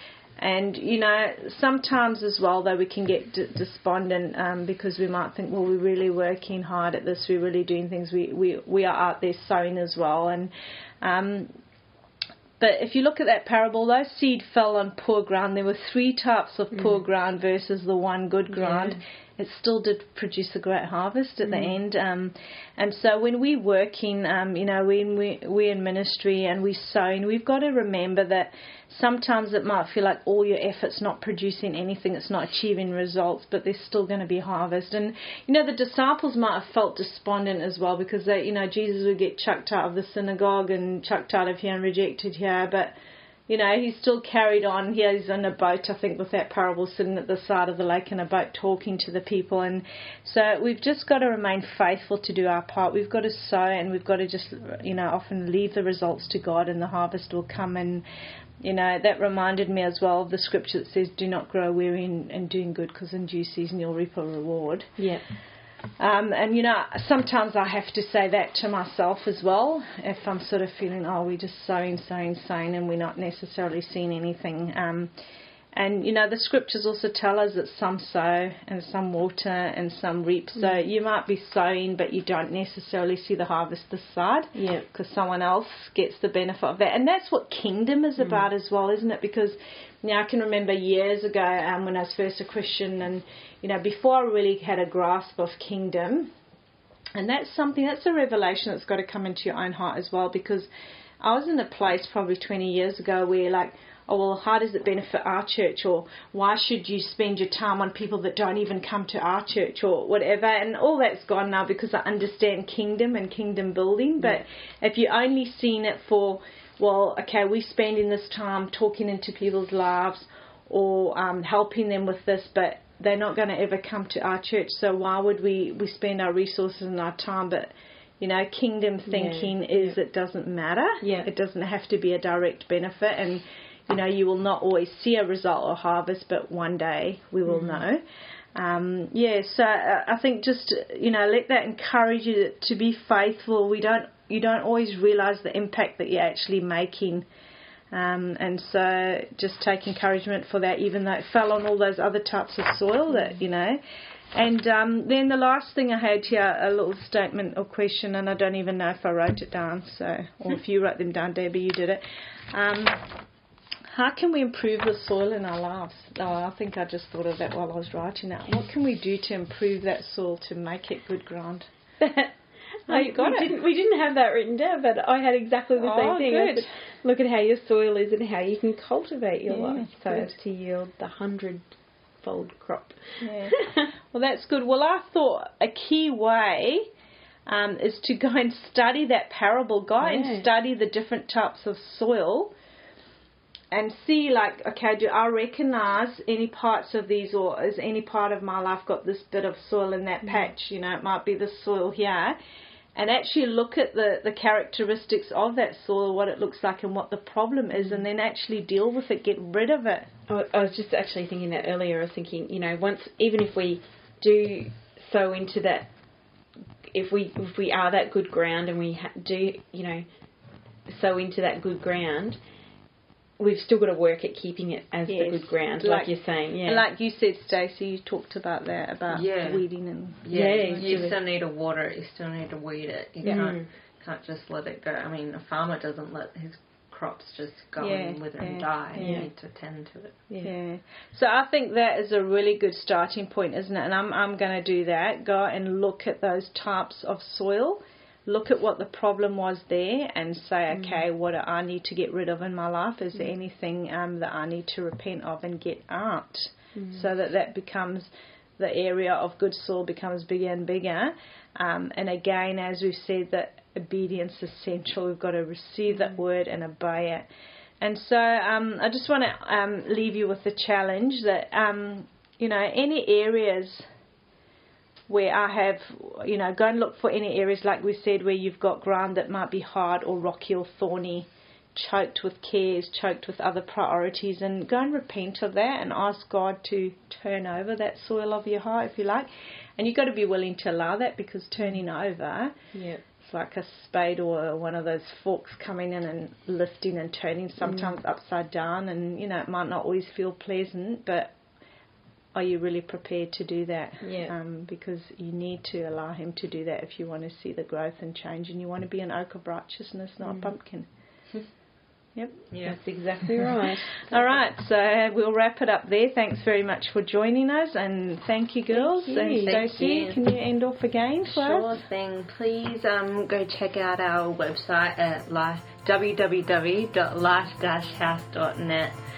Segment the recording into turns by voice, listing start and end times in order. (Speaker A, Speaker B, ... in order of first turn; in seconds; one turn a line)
Speaker A: 0.4-11.5
Speaker A: 12.6-42.9
Speaker B: 16.7-17.0
Speaker B: 18.5-19.0
Speaker B: 21.4-21.8
Speaker A: 43.5-58.0
Speaker A: 58.6-64.9
Speaker B: 65.0-65.2
Speaker A: 66.0-75.1
Speaker A: 75.7-96.3
Speaker B: 84.5-84.8
Speaker B: 88.2-88.5
Speaker A: 97.1-100.7
Speaker A: 101.2-138.0
Speaker B: 129.1-129.9
Speaker B: 131.0-131.3
Speaker B: 137.4-137.8
Speaker A: 138.5-147.2
Speaker A: 147.9-153.8
Speaker A: 154.3-163.2
Speaker A: 163.9-172.2
Speaker B: 172.9-181.6
Speaker A: 172.9-173.5
Speaker A: 175.8-176.7
Speaker A: 179.5-180.3
Speaker B: 182.2-183.9
Speaker A: 183.2-183.6
Speaker A: 184.1-186.9
Speaker A: 187.4-192.5
Speaker B: 190.0-190.5
Speaker A: 193.7-202.4
Speaker A: 202.9-210.1
Speaker B: 207.8-208.0
Speaker B: 210.3-215.9
Speaker B: 216.9-220.0
Speaker B: 220.9-222.4
Speaker B: 223.4-226.8
Speaker A: 225.1-231.1
Speaker C: 229.1-229.6
Speaker C: 230.2-240.3
Speaker B: 230.3-231.2
Speaker B: 233.2-233.7
Speaker A: 237.8-239.2
Speaker B: 238.9-239.3
Speaker A: 240.4-267.3
Speaker B: 250.7-251.0
Speaker B: 256.8-257.1
Speaker B: 265.9-266.2
Speaker A: 267.8-273.9
Speaker A: 275.1-292.5
Speaker B: 292.7-293.0
Speaker A: 293.1-301.3
Speaker B: 297.6-297.9
Speaker A: 302.3-310.9
Speaker B: 304.0-304.3
Speaker B: 310.2-310.5
Speaker A: 312.1-312.4
Speaker C: 312.5-312.8
Speaker B: 312.6-314.3
Speaker A: 314.0-321.8
Speaker B: 318.7-319.6
Speaker C: 319.4-320.2
Speaker C: 321.2-328.9